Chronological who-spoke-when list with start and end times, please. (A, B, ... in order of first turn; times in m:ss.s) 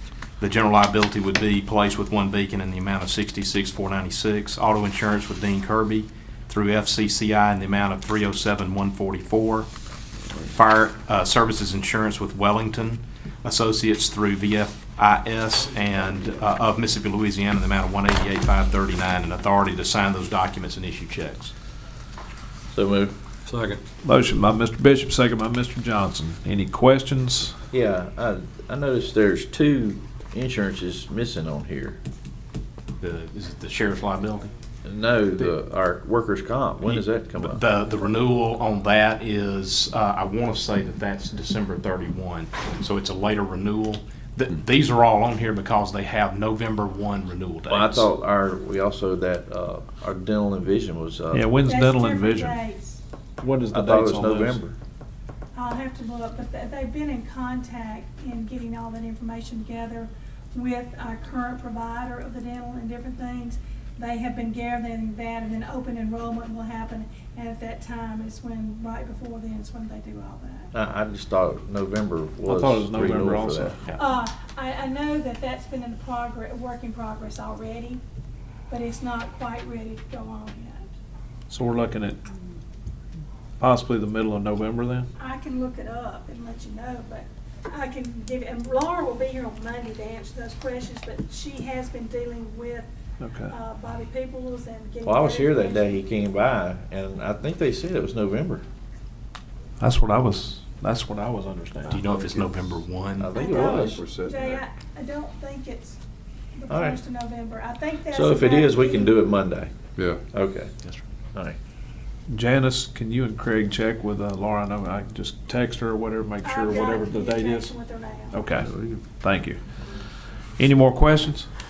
0:00.4-0:09.7 A
0:10.4-0:21.5 A
0:22.7-0:23.1 B
0:23.5-0:23.8 C
0:24.0-0:27.6 D
0:27.7-0:32.0 B
0:33.0-0:34.5 A
0:34.8-0:37.6 B
0:36.9-0:48.1 A
0:47.7-0:51.6 B
0:51.3-0:52.6 D
0:51.6-0:53.0 E
0:53.4-0:54.6 D
0:53.7-0:54.8 B
0:55.5-1:10.7 E
1:10.7-1:13.8 B
1:12.4-1:13.8 D
1:13.9-1:18.0 E
1:18.7-1:20.9 E
1:21.5-1:22.2 D
1:23.6-1:25.1 D
1:25.2-1:32.9 E
1:33.2-1:33.5 D
1:33.4-1:36.1 E
1:35.0-1:38.6 B
1:39.8-1:42.0 D
1:41.9-1:43.3 A
1:43.2-1:44.1 B
1:43.3-1:46.0 E
1:43.5-1:44.6 C
1:46.5-1:49.4 E
1:46.7-1:47.0 B
1:48.1-1:49.7 B
1:50.3-1:50.7 B
1:52.3-1:57.7 D
1:56.4-1:58.5 E
1:58.3-1:59.6 D
1:58.6-1:59.0 C
2:00.6-2:01.5 D